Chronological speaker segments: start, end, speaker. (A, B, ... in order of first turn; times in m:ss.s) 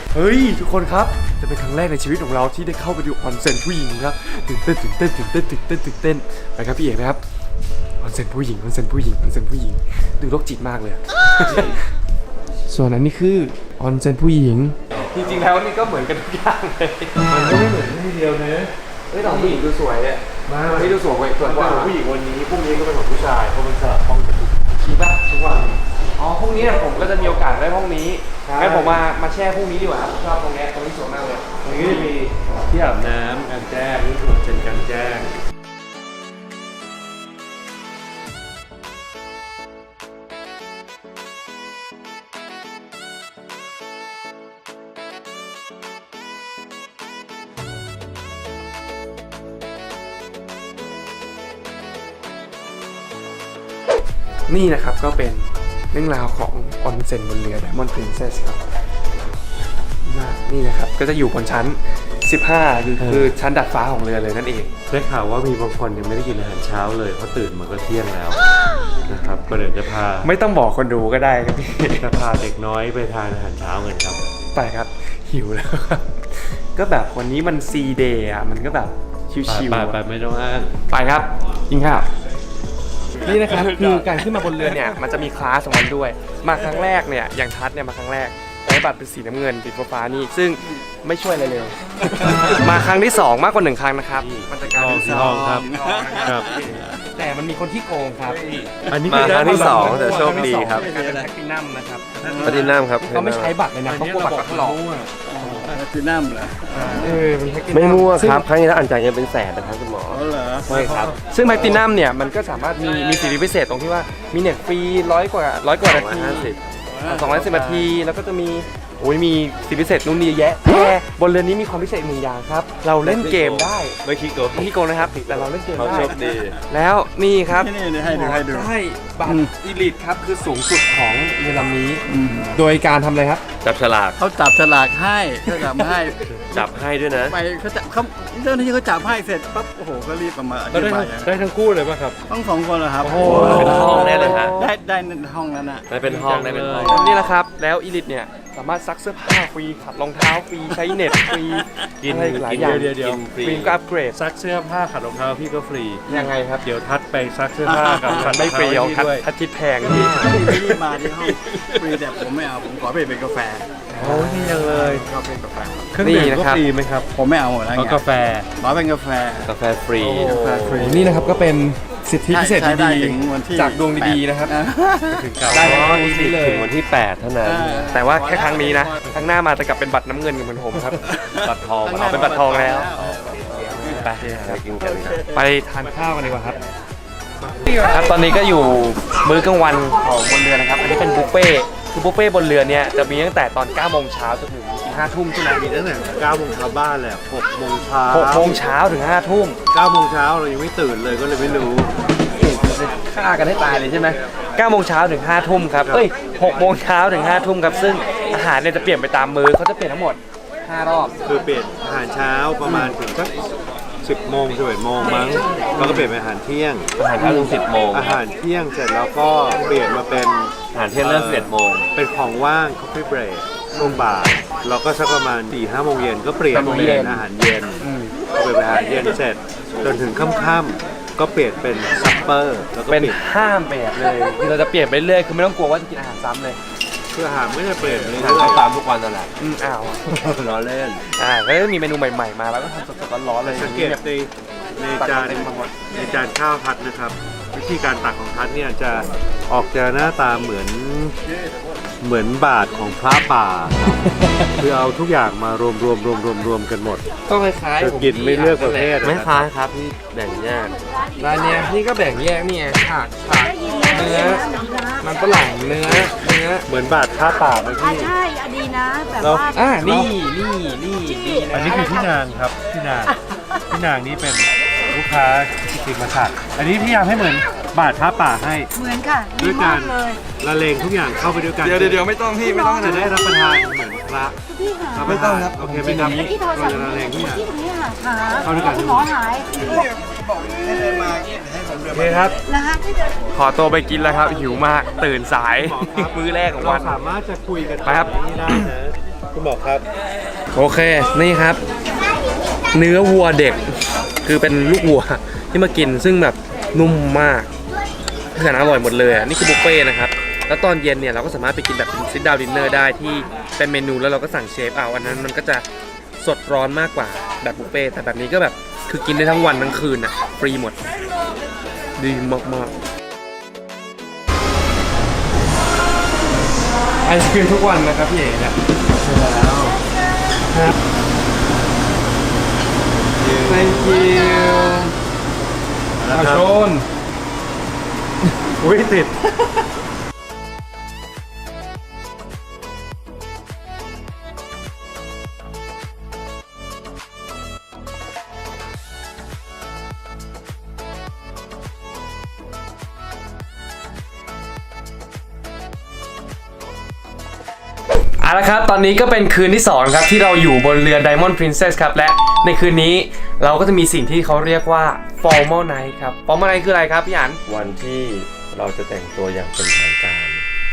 0:00.1-0:07.2 A
0:08.0-0:11.8 A
0:11.4-0:11.8 B
0:12.7-0:17.7 A
0:14.9-0:15.5 B
0:17.3-0:19.6 B
0:19.1-0:22.0 A
0:20.5-0:24.6 B
0:24.8-0:32.1 A
0:28.4-0:29.0 B
0:31.6-0:35.4 B
0:54.5-0:58.6 A
1:00.0-1:04.7 A
1:03.0-1:03.3 B
1:04.9-1:08.4 B
1:09.1-1:10.3 B
1:10.2-1:12.1 A
1:12.0-1:14.2 B
1:14.5-1:20.0 A
1:19.5-1:20.7 B
1:20.9-1:22.1 A
1:23.2-1:44.8 A
1:32.2-1:32.6 B
1:34.2-1:35.7 B
1:34.9-1:36.9 C
1:36.2-1:36.6 B
1:38.8-1:40.5 B
1:39.1-1:40.8 D
1:40.4-1:41.3 C
1:42.2-1:42.6 C
1:42.2-1:42.8 B
1:42.4-1:43.5 D
1:43.8-1:45.8 B
1:45.2-1:47.2 C
1:46.7-1:48.5 A
1:47.7-1:50.2 D
1:50.1-1:50.7 C
1:50.7-1:51.8 B
1:50.7-1:56.5 A
1:55.8-1:56.6 D
1:56.8-1:57.9 C
1:57.1-2:04.0 A
2:03.0-2:06.6 D
2:04.5-2:06.2 A
2:05.8-2:06.1 C
2:06.7-2:13.4 A
2:07.5-2:08.7 C
2:09.2-2:09.5 C
2:12.1-2:12.5 C
2:13.6-2:14.2 D
2:14.2-2:16.4 C
2:16.5-2:17.4 D
2:17.3-2:21.3 C
2:20.7-2:22.2 B
2:22.3-2:25.9 C
2:23.0-2:23.9 B
2:23.3-2:24.6 D
2:23.4-2:24.7 A
2:25.9-2:27.1 D
2:26.0-2:27.1 B
2:26.8-2:34.2 A
2:32.0-2:33.2 B
2:32.4-2:33.8 D
2:34.1-2:39.2 B
2:36.1-2:36.6 A
2:37.7-2:40.5 A
2:39.8-2:43.8 C
2:40.0-2:40.6 B
2:43.9-2:44.8 A
2:44.0-2:45.1 B
2:44.5-2:46.0 C
2:45.9-2:47.1 B
2:46.0-2:46.6 A
2:47.1-2:48.0 C
2:47.7-2:48.5 B
2:48.6-2:51.1 C
2:49.4-2:51.4 D
2:50.7-2:54.5 A
2:52.3-2:55.2 C
2:55.1-2:56.0 B
2:55.5-2:56.7 A
2:55.6-2:57.9 D
2:57.4-2:59.0 C
2:57.9-3:01.1 A
3:01.0-3:04.2 C
3:01.4-3:05.2 D
3:02.0-3:02.9 A
3:03.7-3:04.6 A
3:04.8-3:05.4 C
3:05.3-3:06.6 A
3:07.5-3:15.6 A
3:15.5-3:18.6 B
3:18.1-3:19.6 A
3:19.7-3:21.9 B
3:22.3-3:31.1 A
3:25.8-3:26.1 B
3:31.2-3:33.5 B
3:32.7-3:32.9 A
3:34.0-3:36.9 B
3:37.0-3:38.2 D
3:37.2-3:37.6 A
3:37.9-3:53.2 B
3:40.7-3:41.9 D
3:43.8-3:44.1 A
3:46.5-3:47.3 A
3:47.8-3:48.2 A
3:52.9-3:56.6 A
3:57.1-3:58.6 B
3:57.8-3:59.3 D
3:59.4-4:00.3 A
4:00.2-4:01.0 D
4:01.1-4:04.0 A
4:03.4-4:11.2 B
4:05.0-4:05.7 A
4:12.0-4:17.0 B
4:14.0-4:14.6 A
4:17.3-4:19.0 A
4:17.8-4:19.5 B
4:19.0-4:20.8 D
4:21.2-4:26.7 A
4:23.6-4:25.0 E
4:25.8-4:28.2 B
4:27.8-4:29.8 E
4:29.2-4:29.5 B
4:29.5-4:31.9 A
4:31.5-4:38.7 B
4:38.8-4:40.2 E
4:39.4-4:42.1 B
4:41.6-4:43.1 A
4:42.8-4:44.4 B
4:44.7-4:45.0 E
4:44.9-4:47.5 B
4:45.1-4:46.3 A
4:46.3-4:49.5 E
4:48.4-4:49.1 B
4:49.5-4:52.4 C
4:51.9-4:52.4 B
4:52.5-4:52.9 E
4:53.3-4:57.0 A
4:55.6-4:59.9 B
4:57.8-4:58.7 A
5:00.5-5:01.6 A
5:02.7-5:07.5 A
5:08.3-5:15.6 A
5:16.2-5:20.8 A
5:22.0-5:22.7 A
5:27.0-5:29.8 A
5:33.2-5:33.8 B
5:33.4-5:34.9 A
5:36.0-5:36.5 B
5:36.1-5:36.9 A
5:38.6-5:39.3 B
5:58.2-6:07.4 A
6:07.5-6:10.4 D